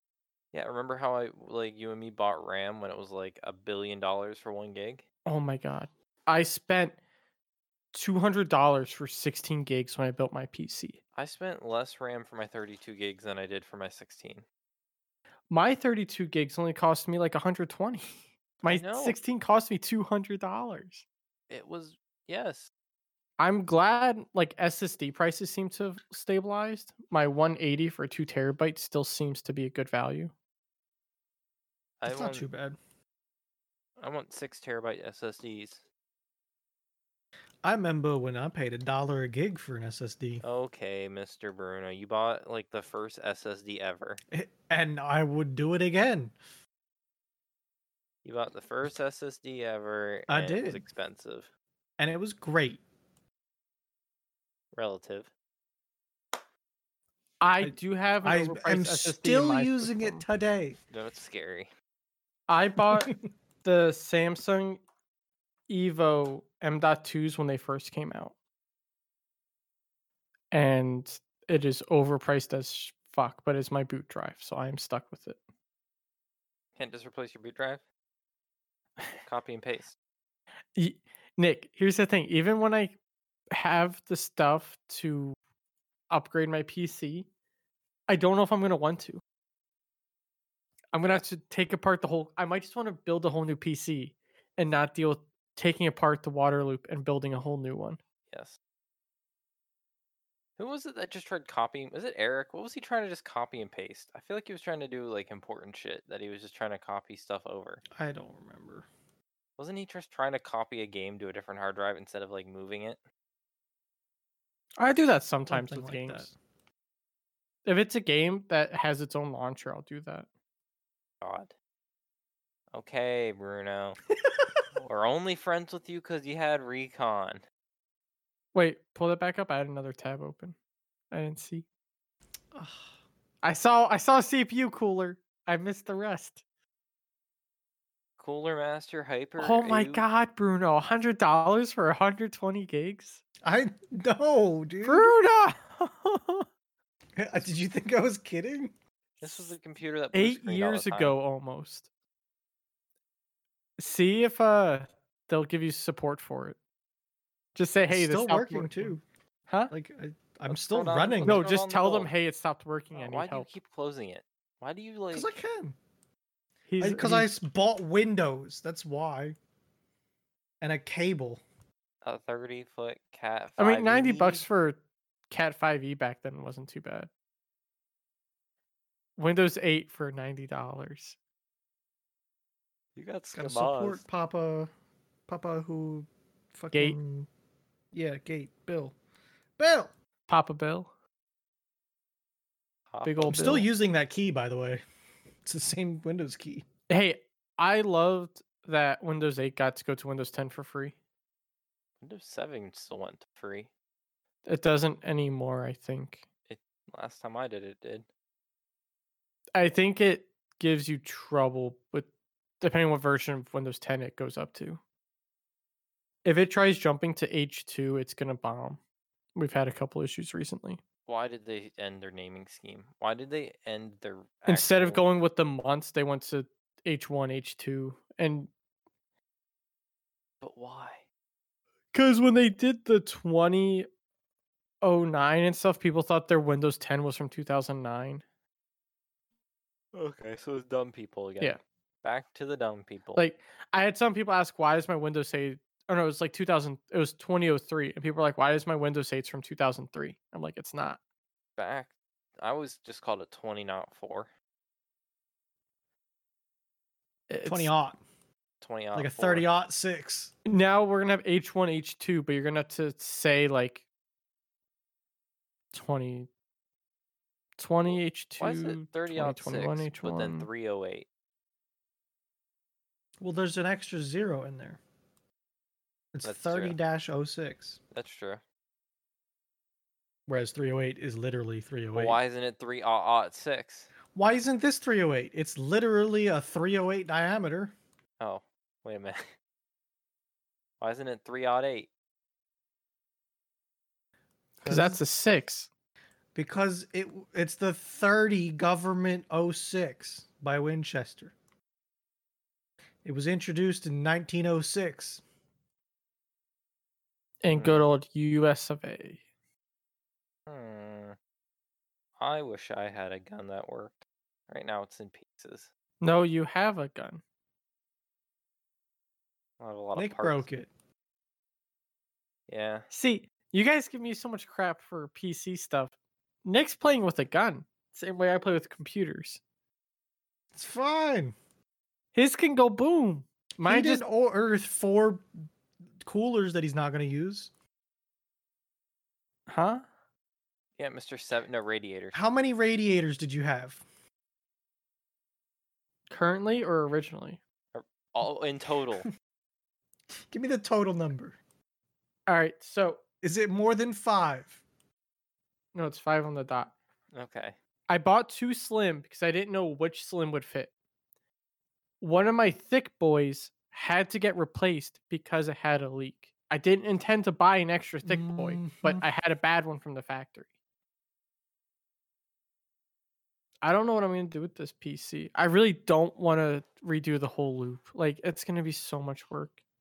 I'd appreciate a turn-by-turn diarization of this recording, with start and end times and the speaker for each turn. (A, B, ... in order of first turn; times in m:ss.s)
0:00.5-0:05.0 A
0:05.2-0:07.0 B
0:07.9-0:11.0 B
0:11.1-0:14.4 A
0:15.5-0:21.0 B
0:18.6-0:19.2 A
0:21.5-0:22.7 A
0:23.4-0:30.3 B
0:32.0-0:32.5 A
0:32.0-0:32.8 C
0:34.0-0:35.8 A
0:37.6-0:40.4 C
0:40.4-0:44.2 A
0:44.3-0:46.3 C
0:48.2-0:51.5 A
0:50.3-0:50.8 C
0:52.0-0:52.8 C
0:54.7-0:55.3 A
0:57.4-1:00.2 B
0:57.6-1:00.8 C
1:00.9-1:01.7 A
1:02.5-1:04.8 B
1:05.7-1:08.3 B
1:10.5-1:15.4 B
1:16.8-1:17.8 A
1:19.2-1:20.0 A
1:20.7-1:23.0 B
1:23.5-1:25.4 B
1:26.1-1:27.3 B
1:28.1-1:29.2 B
1:30.9-1:38.0 B
1:38.3-1:38.6 A
1:40.6-1:47.8 A
1:47.9-1:48.9 C
1:49.6-1:53.0 A
1:54.8-1:56.3 B
1:55.5-1:56.3 C
1:57.6-2:00.3 B
2:01.2-2:01.5 A
2:02.7-2:04.0 A
2:04.8-2:07.4 A
2:08.5-2:10.5 B
2:11.1-2:11.6 B
2:12.5-2:12.9 C
2:13.4-2:16.4 B
2:18.2-2:20.0 A
2:19.4-2:23.2 B
2:23.4-2:25.1 C
2:24.8-2:26.4 B
2:27.2-2:28.7 C
2:29.2-2:31.2 A
2:30.1-2:31.9 B
2:33.8-2:36.6 B
2:37.6-2:39.7 B
2:37.9-2:39.0 C
2:39.7-2:41.4 C
2:40.5-2:42.1 A
2:41.2-2:43.5 B
2:42.9-2:45.3 A
2:45.1-2:45.8 C
2:46.7-2:47.3 B
2:46.8-2:49.4 C
2:50.6-2:51.4 C
2:52.0-2:54.4 A
2:53.6-2:54.8 B
2:55.3-2:57.1 B
2:59.2-3:01.2 B
3:03.0-3:04.0 A
3:03.3-3:04.7 C
3:05.3-3:07.3 C
3:07.9-3:09.0 C
3:09.6-3:09.9 C
3:10.3-3:10.9 B
3:12.9-3:13.6 A
3:13.0-3:13.7 B
3:13.3-3:14.8 C
3:15.4-3:16.6 C
3:16.9-3:21.0 B
3:22.0-3:23.7 A
3:24.4-3:26.2 B
3:26.5-3:28.1 A
3:29.5-3:32.1 B
3:32.6-3:34.8 B
3:36.2-3:38.8 B
3:39.3-3:40.8 B
3:41.1-3:45.0 A
3:44.4-3:48.5 B
3:50.4-3:51.0 A
3:51.9-3:53.9 B
3:54.8-3:58.2 B
3:59.9-4:03.2 A
4:03.1-4:11.0 B
4:11.6-4:14.3 A
4:17.3-4:17.7 B
4:17.4-4:18.0 C
4:18.6-4:19.5 A
4:18.9-4:20.3 C
4:20.4-4:23.8 B
4:25.7-4:26.3 B
4:27.6-4:30.5 B
4:27.9-4:31.1 A
4:33.2-4:34.8 C
4:36.1-4:37.8 C
4:36.2-4:36.8 A
4:37.9-4:38.4 A
4:40.3-4:42.2 C
4:41.9-4:43.9 A
4:44.1-4:47.7 C
4:48.2-4:49.3 A
4:50.8-4:51.9 A
4:54.6-4:55.0 C
4:54.6-4:55.7 B
4:56.3-5:01.3 C
5:03.0-5:05.2 C
5:07.4-5:09.2 B
5:07.5-5:07.8 A
5:10.5-5:11.2 A
5:12.2-5:15.7 A
5:16.0-5:17.2 B
5:19.6-5:20.5 A
5:19.9-5:20.7 C
5:22.5-5:22.9 A
5:22.9-5:29.4 B
5:30.5-5:31.4 C
5:32.1-5:34.0 B
5:33.6-5:35.2 C
5:36.0-5:37.5 C
5:39.5-5:39.8 B
5:40.8-5:42.2 A
5:42.1-5:43.8 C
5:46.1-5:47.4 B
5:47.7-5:49.1 A
5:50.3-5:51.4 C
5:52.3-5:53.0 B
5:53.2-5:54.6 C
5:55.7-5:56.7 B
5:57.1-5:57.6 A
5:57.9-6:00.7 B
6:02.0-6:10.4 B
6:08.0-6:09.0 C
6:13.6-6:19.6 B